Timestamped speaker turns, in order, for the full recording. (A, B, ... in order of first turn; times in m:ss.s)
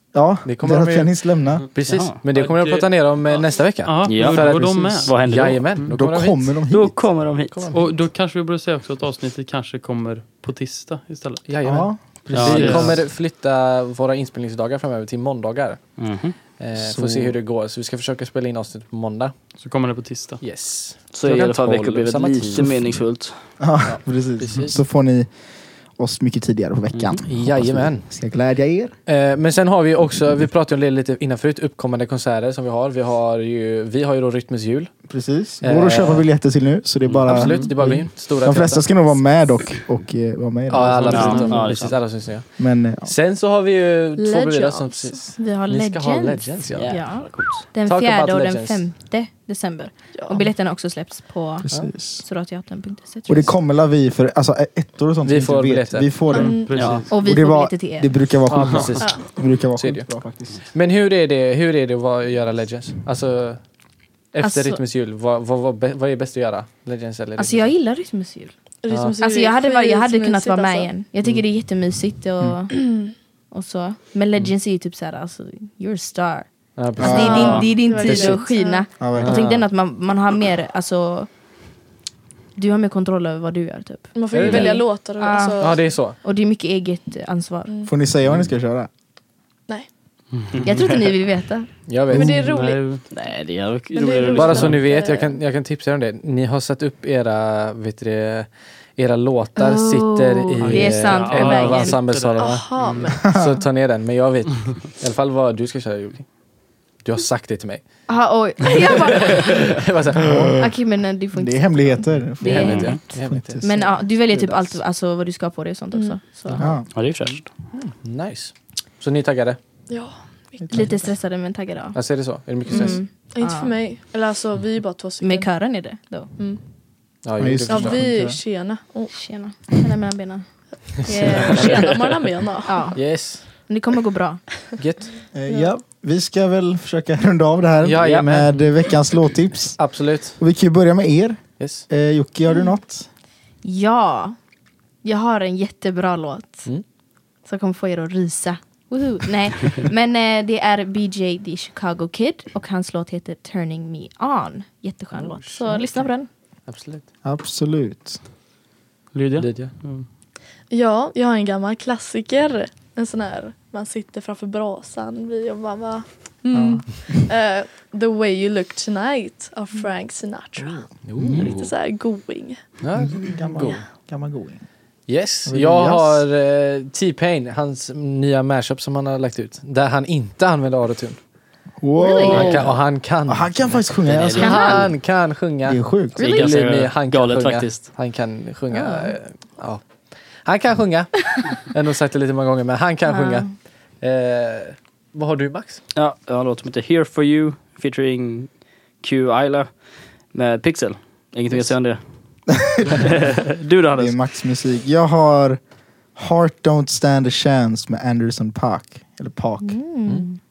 0:00.1-0:01.6 A
0:00.4-0:06.5 B
0:01.9-0:02.2 C
0:02.0-0:05.9 D
0:04.1-0:05.6 C
0:05.9-0:07.3 A
0:06.7-0:07.6 C
0:07.5-0:08.0 B
0:07.7-0:11.6 D
0:11.5-0:19.3 B
0:11.6-0:12.9 A
0:12.3-0:12.9 C
0:12.3-0:13.0 D
0:16.0-0:16.4 C
0:16.8-0:17.4 A
0:19.6-0:20.4 D
0:20.4-0:23.1 B
0:21.1-0:23.3 C
0:23.6-0:28.9 A
0:23.8-0:24.8 B
0:27.2-0:28.1 B
0:29.0-0:36.3 B
0:35.0-0:41.7 A
0:37.0-0:37.3 C
0:37.2-0:38.9 B
0:37.3-0:37.7 D
0:40.7-0:47.2 B
0:41.0-0:41.7 D
0:41.1-0:42.0 C
0:42.6-0:43.1 A
0:44.2-0:45.3 E
0:45.4-0:53.5 F
0:46.8-0:47.6 C
0:47.8-0:48.8 B
0:50.1-0:50.4 E
0:51.6-0:52.3 A
0:53.3-1:00.7 A
0:55.2-0:57.0 B
0:56.3-0:56.9 E
0:56.3-0:57.1 D
0:56.7-0:57.0 C
0:57.1-0:58.2 F
0:58.4-1:03.8 B
1:04.3-1:07.7 B
1:04.4-1:04.8 F
1:07.4-1:08.5 F
1:08.8-1:10.9 E
1:08.9-1:09.2 B
1:09.2-1:12.8 F
1:12.8-1:13.1 E
1:13.5-1:21.3 F
1:16.8-1:18.4 B
1:17.0-1:17.6 A
1:17.1-1:18.8 E
1:19.0-1:19.4 A
1:19.2-1:19.6 B
1:22.6-1:27.9 F
1:24.1-1:25.9 E
1:24.3-1:24.9 B
1:25.6-1:26.2 B
1:27.8-1:28.9 A
1:30.4-1:30.7 D
1:30.6-1:31.8 F
1:31.9-1:32.5 B
1:32.1-1:32.9 E
1:32.1-1:32.6 A
1:32.4-1:33.1 D
1:33.1-1:34.8 C
1:33.9-1:35.4 E
1:34.3-1:46.4 B
1:39.6-1:42.2 F
1:40.6-1:43.1 D
1:42.4-1:43.5 E
1:43.2-1:43.5 A
1:47.0-1:47.8 B
1:48.1-1:49.8 F
1:48.8-1:50.5 B
1:50.2-1:50.7 A
1:50.5-1:53.0 F
1:51.3-1:54.8 A
1:52.4-1:53.8 B
1:52.6-1:52.9 C
1:53.6-1:56.7 F
1:55.9-1:56.2 E
1:56.6-1:56.9 A
1:56.9-1:57.4 C
1:57.7-1:59.6 B
1:59.9-2:01.0 E
2:00.7-2:02.0 F
2:01.9-2:03.0 B
2:02.7-2:03.7 F
2:02.7-2:05.7 E
2:05.2-2:06.3 F
2:07.2-2:08.0 B
2:07.4-2:08.4 A
2:07.6-2:09.3 E
2:09.1-2:12.0 F
2:11.0-2:13.1 E
2:11.2-2:11.9 B
2:12.6-2:14.4 F
2:12.9-2:13.4 B
2:14.8-2:15.1 B
2:15.3-2:23.1 A
2:17.8-2:18.8 B
2:18.0-2:18.4 C
2:19.8-2:20.4 B
2:21.6-2:21.8 B
2:23.6-2:24.4 F
2:25.0-2:26.7 F
2:27.4-2:36.3 F
2:35.1-2:36.0 B
2:35.5-2:36.0 E
2:36.7-2:37.0 B
2:37.2-2:38.2 A
2:39.1-2:40.0 D
2:39.4-2:39.7 B
2:40.7-2:52.6 E
2:46.5-2:47.1 A
2:51.0-2:51.7 B
2:52.8-2:53.8 B
2:53.0-2:54.7 A
2:55.1-3:01.2 B
2:55.4-2:56.2 A
3:01.8-3:04.8 A
3:02.0-3:02.8 F
3:02.3-3:15.8 B
3:04.1-3:04.5 C
3:04.4-3:04.9 F
3:05.6-3:06.2 A
3:06.2-3:07.9 C
3:08.7-3:09.1 F
3:13.1-3:13.5 F
3:15.9-3:22.5 C
3:23.6-3:24.2 C
3:23.9-3:29.9 A
3:29.6-3:30.4 F